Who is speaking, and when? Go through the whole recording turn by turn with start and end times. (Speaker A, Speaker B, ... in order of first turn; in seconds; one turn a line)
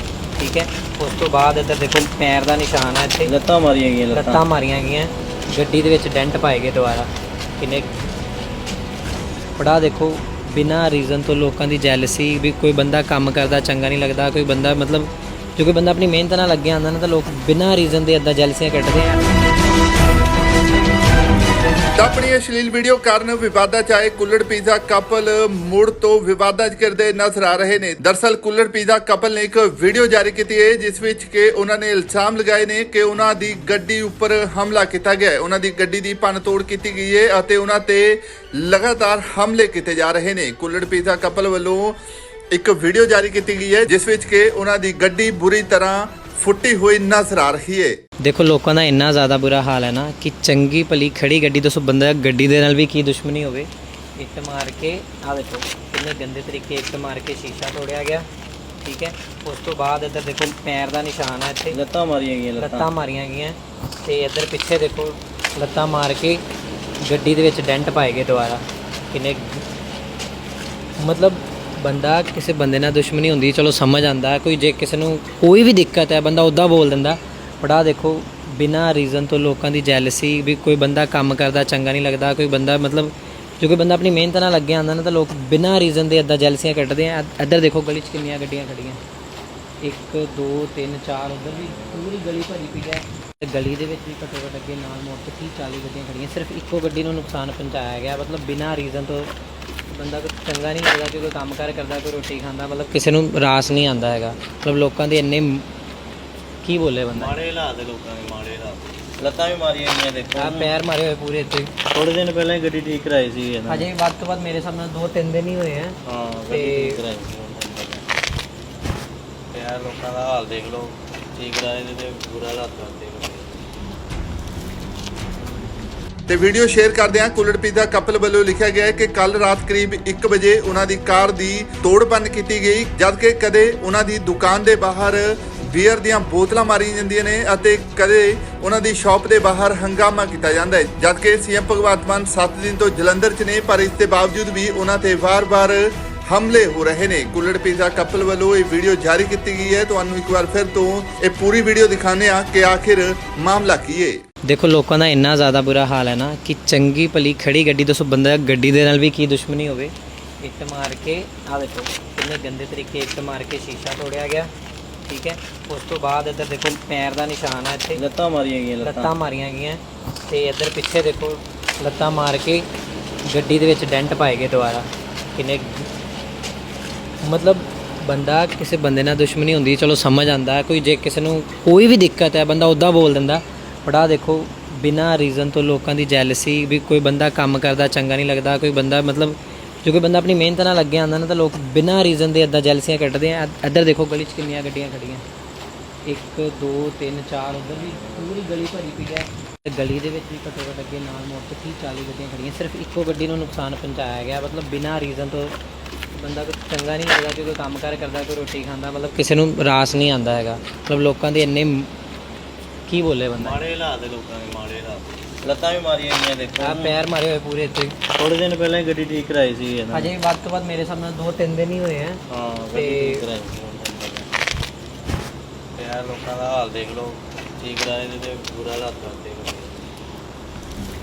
Speaker A: 0.4-3.3
Speaker B: 3.2-4.4
Speaker A: 4.1-7.9
Speaker A: 9.6-19.3
Speaker C: 21.9-42.0
Speaker C: 42.5-47.9
Speaker A: 48.2-58.2
Speaker A: 58.8-61.8
Speaker B: 61.7-62.9
Speaker A: 62.6-66.4
Speaker A: 67.1-69.6
Speaker A: 71.0-89.0
Speaker A: 89.8-99.3
Speaker B: 91.4-92.1
Speaker A: 99.9-105.6
Speaker A: 106.6-107.3
Speaker B: 107.1-110.7
Speaker A: 110.4-111.7
Speaker B: 111.9-113.9
Speaker A: 113.7-115.9
Speaker B: 116.0-118.0
Speaker A: 116.5-117.0
Speaker B: 119.5-123.6
Speaker C: 126.3-154.2
Speaker A: 154.5-164.5
Speaker A: 165.1-168.0
Speaker B: 167.9-169.1
Speaker A: 168.8-172.7
Speaker A: 173.3-175.9
Speaker A: 177.2-195.2
Speaker A: 196.1-205.5
Speaker B: 197.9-198.2
Speaker A: 206.1-211.9
Speaker A: 212.9-213.6
Speaker B: 213.4-217.0
Speaker A: 216.6-217.9
Speaker B: 218.2-220.1
Speaker A: 219.9-222.2
Speaker B: 222.3-224.3
Speaker A: 222.7-223.2
Speaker B: 225.8-229.8